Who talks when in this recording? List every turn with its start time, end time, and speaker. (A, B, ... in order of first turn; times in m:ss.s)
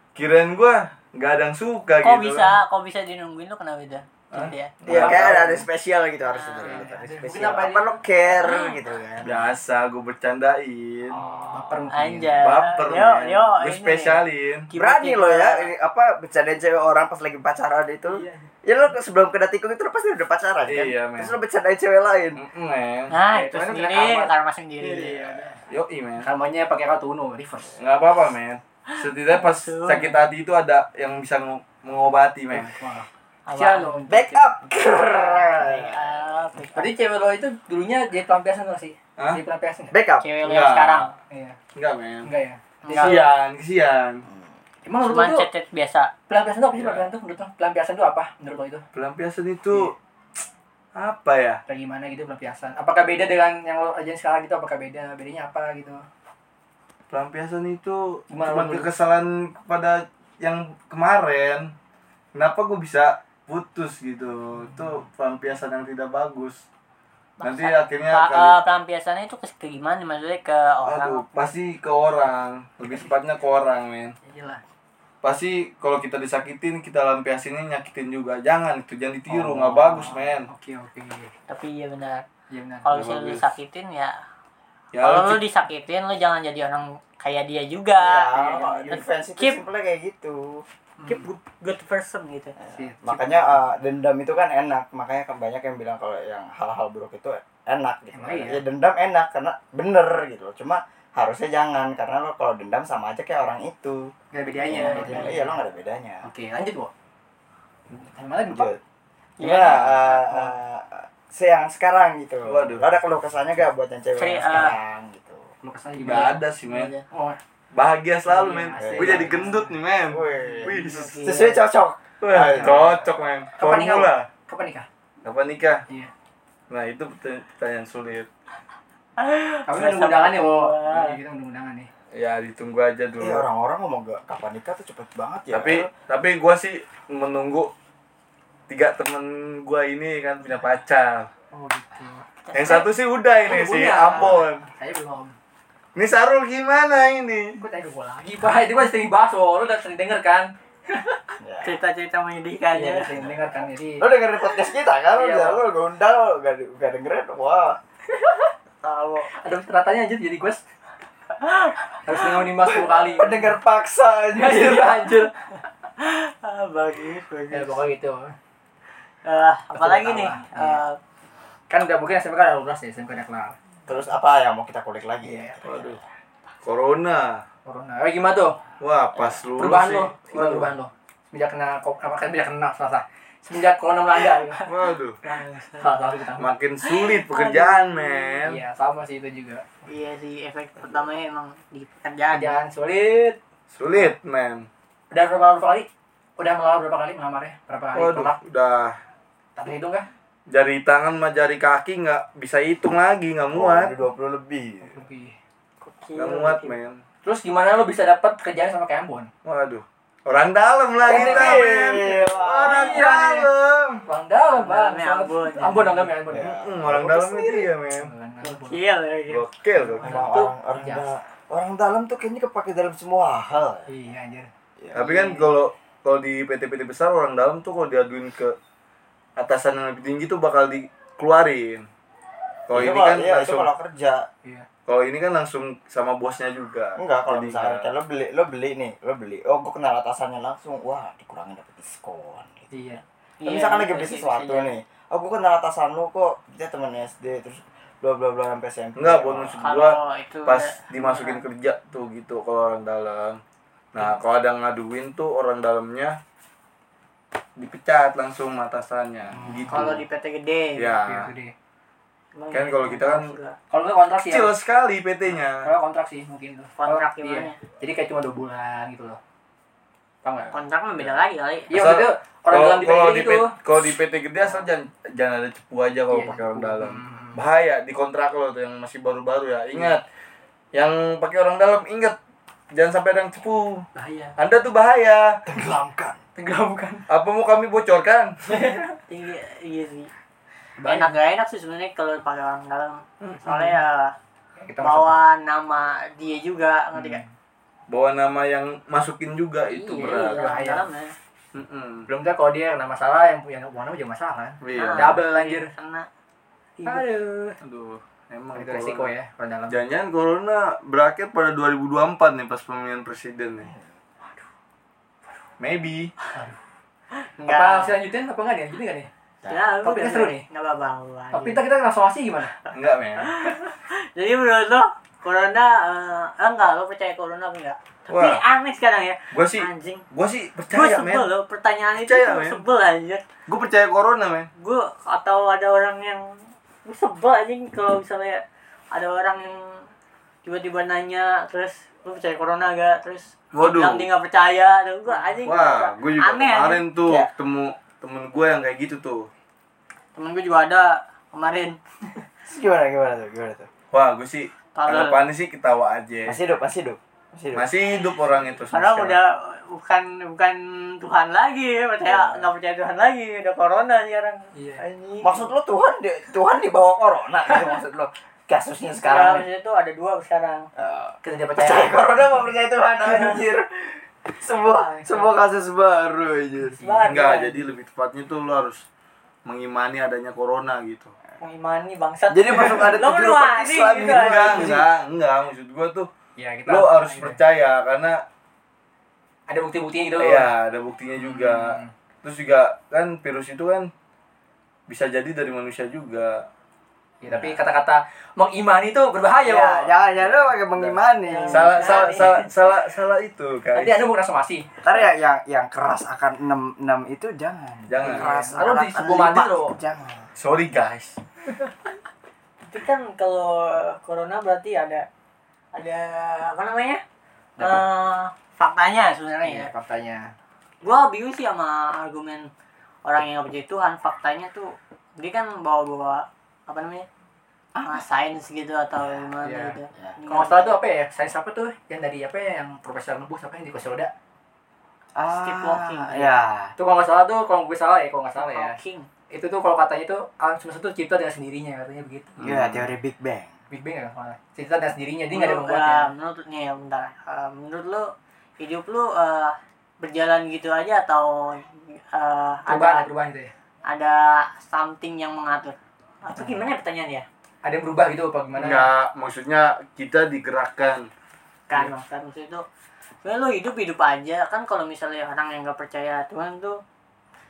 0:00.2-0:02.5 A
0:02.0-0:04.8 B
0:04.3-0:05.6 A
0:04.9-0:09.4 C
0:04.9-0:05.6 D
0:06.3-0:06.9 B
0:06.6-0:08.0 D
0:08.3-0:08.8 B
0:09.2-0:11.2 A
0:11.1-0:11.8 C
0:11.5-0:12.5 D
0:11.9-0:15.7 B
0:12.4-0:14.7 A
0:14.8-0:22.4 C
0:18.1-0:18.4 D
0:20.7-0:21.3 A
0:22.4-0:23.1 A
0:23.1-0:25.3 B
0:23.3-0:25.6 D
0:25.7-0:26.3 A
0:26.2-0:27.8 D
0:27.8-0:32.7 A
0:28.9-0:30.2 B
0:32.5-0:34.6 D
0:33.5-0:34.0 B
0:34.1-0:36.4 C
0:35.6-0:36.9 B
0:36.8-0:40.0 D
0:39.9-0:40.3 C
0:40.2-0:41.1 B
0:40.4-0:41.1 A
0:41.3-0:41.6 D
0:41.8-0:42.3 A
0:42.2-0:43.2 D
0:42.8-0:43.2 B
0:42.9-0:44.2 A
0:44.8-0:45.5 D
0:45.0-0:46.1 B
0:46.3-0:48.8 D
0:46.7-0:47.1 A
0:48.9-0:50.0 A
0:51.0-0:51.6 A
0:51.7-0:56.1 D
0:57.1-1:01.7 A
0:58.3-0:58.9 D
1:02.3-1:06.6 A
1:07.4-1:11.3 B
1:07.4-1:08.6 A
1:10.8-1:14.2 A
1:14.2-1:14.6 D
1:15.2-1:20.5 A
1:19.3-1:21.3 D
1:21.5-1:22.3 B
1:22.5-1:22.9 D
1:22.8-1:24.2 B
1:22.9-1:23.5 A
1:24.9-1:25.4 A
1:25.0-1:29.6 B
1:28.0-1:30.6 C
1:28.3-1:29.0 D
1:31.0-1:31.2 D
1:31.1-1:32.6 B
1:32.6-1:46.3 C
1:32.7-1:33.6 D
1:38.1-1:38.6 D
1:44.3-1:45.6 D
1:44.7-1:45.3 B
1:46.2-1:46.9 D
1:48.0-1:48.7 D
1:48.5-1:48.8 C
1:49.4-1:50.0 B
1:49.4-1:55.5 C
1:50.1-1:50.5 D
1:52.5-1:52.9 A
1:54.2-1:54.8 B
1:55.6-1:56.4 D
1:56.0-1:56.9 A
1:56.1-1:57.0 B
1:57.1-1:57.4 D
1:57.7-2:01.2 A
1:58.2-2:00.8 D
1:58.8-1:59.4 C
2:00.1-2:02.9 C
2:00.7-2:01.6 B
2:02.2-2:04.3 A
2:02.3-2:03.0 D
2:03.6-2:04.9 D
2:05.2-2:05.8 A
2:06.7-2:08.3 A
2:09.2-2:11.2 B
2:09.7-2:11.9 D
2:12.1-2:13.4 A
2:13.2-2:15.9 C
2:15.5-2:17.7 A
2:18.7-2:21.3 A
2:21.5-2:22.2 D
2:22.4-2:22.9 B
2:22.5-2:24.6 A
2:23.4-2:25.3 D
2:26.0-2:27.6 A
2:27.6-2:31.4 D
2:31.4-2:31.8 C
2:31.6-2:33.1 B
2:32.7-2:34.1 D
2:33.0-2:33.4 C
2:34.0-2:37.8 C
2:35.1-2:35.6 D
2:38.1-2:38.5 D
2:38.8-2:39.3 B
2:39.3-2:40.6 D
2:41.4-2:42.0 B
2:42.0-2:43.5 D
2:42.6-2:45.1 C
2:44.4-2:45.3 D
2:46.0-2:47.8 B
2:47.5-2:48.3 D
2:49.3-2:51.0 B
2:49.7-2:50.8 D
2:51.7-2:53.9 D
2:53.9-2:55.9 C
2:55.2-2:55.6 D
2:55.6-2:56.0 A
2:56.6-2:57.4 A
2:57.7-2:58.6 D
2:58.8-3:00.7 A
2:59.6-3:04.6 D
3:04.6-3:05.2 A
3:05.2-3:05.9 B
3:05.8-3:06.5 D
3:06.4-3:08.6 A
3:06.8-3:08.4 B
3:08.4-3:09.7 D
3:09.9-3:12.6 B
3:12.3-3:13.4 D
3:13.7-3:14.7 A
3:15.1-3:18.4 D
3:17.9-3:19.0 A
3:19.6-3:20.1 D
3:20.5-3:23.9 A
3:23.5-3:25.0 C
3:24.9-3:25.4 D
3:25.8-3:26.7 B
3:26.2-3:27.0 A
3:27.2-3:29.3 D
3:29.4-3:34.0 A
3:31.0-3:33.5 D
3:31.0-3:33.1 C
3:34.1-3:36.5 D
3:34.5-3:36.1 B
3:36.3-3:37.7 C
3:36.3-3:38.1 A
3:37.9-3:38.8 D
3:38.4-3:39.4 B
3:39.3-3:40.3 A
3:39.9-3:41.1 D
3:40.0-3:43.9 C
3:43.9-3:45.4 D
3:44.8-3:45.1 C
3:44.9-3:48.6 A
3:49.4-3:51.8 A
3:52.7-3:53.7 A
3:52.7-3:54.3 C
3:54.9-3:57.9 A
3:57.0-4:02.7 C
4:02.7-4:03.0 D
4:03.4-4:04.7 B
4:03.4-4:09.6 C
4:09.0-4:13.4 A
4:09.6-4:11.4 B
4:13.9-4:16.2 A
4:17.6-4:20.0 A
4:19.3-4:19.7 C
4:19.7-4:21.0 B
4:20.8-4:21.3 A
4:21.0-4:21.5 D
4:22.4-4:23.6 B
4:22.5-4:23.4 A
4:23.7-4:24.5 D
4:24.2-4:25.7 A
4:25.6-4:29.2 D
4:26.8-4:27.6 B
4:30.2-4:30.6 D
4:30.5-4:31.7 B
4:31.7-4:33.5 D
4:31.7-4:40.0 A
4:36.1-4:37.4 D
4:40.7-4:42.2 A
4:42.7-4:45.4 A
4:44.0-4:44.4 D
4:45.5-4:46.2 C
4:46.4-4:47.1 D
4:47.1-4:48.4 A
4:48.5-4:48.9 D
4:49.1-4:50.1 B
4:50.8-4:51.2 D
4:50.8-4:54.1 B
4:53.5-4:53.8 D
4:54.6-4:55.2 D
4:54.8-4:57.2 B
4:57.0-4:57.3 D
4:57.9-5:00.4 A
4:59.7-5:01.1 B
5:00.0-5:00.8 D
5:01.5-5:02.1 A
5:02.1-5:05.7 D
5:04.6-5:05.2 A
5:04.7-5:06.1 B
5:06.8-5:07.1 B
5:06.8-5:07.6 D
5:07.6-5:09.1 A
5:08.5-5:09.8 D
5:09.7-5:13.7 A
5:15.6-5:16.1 A
5:16.3-5:16.6 D
5:17.2-5:18.0 B
5:17.5-5:19.1 D
5:19.5-5:21.6 B
5:19.8-5:20.4 D
5:21.3-5:22.6 D
5:22.7-5:23.3 A
5:23.2-5:30.1 B
5:28.1-5:28.4 A
5:29.3-5:31.3 A
5:30.7-5:33.2 B
5:32.0-5:32.6 A
5:33.5-5:34.5 A
5:34.6-5:39.9 B
5:40.4-5:46.8 B
5:43.5-5:44.1 A
5:45.4-5:49.3 A
5:47.0-5:47.3 C
5:50.2-5:51.8 B
5:52.5-5:53.7 C
5:53.9-5:56.4 A
5:54.8-5:55.2 B
5:56.3-5:57.7 C
5:57.6-5:59.2 A
5:58.7-6:05.5 B
6:02.1-6:02.4 C
6:04.5-6:04.8 D
6:05.2-6:09.5 C
6:09.0-6:10.7 B
6:10.8-6:16.8 C
6:11.2-6:12.3 D
6:14.7-6:15.3 B
6:16.8-6:17.7 B
6:16.8-6:17.1 D
6:17.0-6:18.8 A
6:19.5-6:21.1 A
6:21.4-6:24.7 B
6:22.3-6:24.9 C
6:24.0-6:26.1 A
6:26.4-6:27.4 D
6:26.7-6:28.2 A
6:29.5-6:30.5 D
6:30.2-6:33.9 A
6:31.2-6:31.9 D
6:34.9-6:36.5 A
6:37.2-6:39.9 D
6:37.3-6:37.6 C
6:39.4-6:42.0 C
6:40.2-6:44.0 A
6:41.3-6:42.5 B
6:43.8-6:44.7 D
6:44.8-6:50.3 C
6:47.9-6:48.3 A
6:48.0-6:49.8 D
6:50.4-6:51.2 A
6:52.6-6:55.1 B
6:55.7-6:57.0 B
6:57.6-6:57.8 D
6:57.6-6:59.7 B
6:59.4-7:00.3 D
7:00.8-7:02.5 B
7:03.0-7:07.1 B
7:07.8-7:08.0 C
7:07.8-7:10.8 B
7:09.0-7:09.3 C
7:09.4-7:09.8 D
7:10.3-7:14.1 D
7:15.2-7:16.8 C
7:15.3-7:16.4 B
7:16.8-7:18.8 D
7:18.4-7:19.1 B
7:19.3-7:22.5 D
7:22.4-7:22.8 A
7:22.4-7:23.5 C
7:23.7-7:26.1 D
7:25.3-7:33.1 B
7:32.7-7:33.5 D
7:33.9-7:37.3 B
7:37.6-7:38.9 D
7:38.6-7:41.1 A
7:41.7-7:42.6 B
7:43.2-7:46.8 B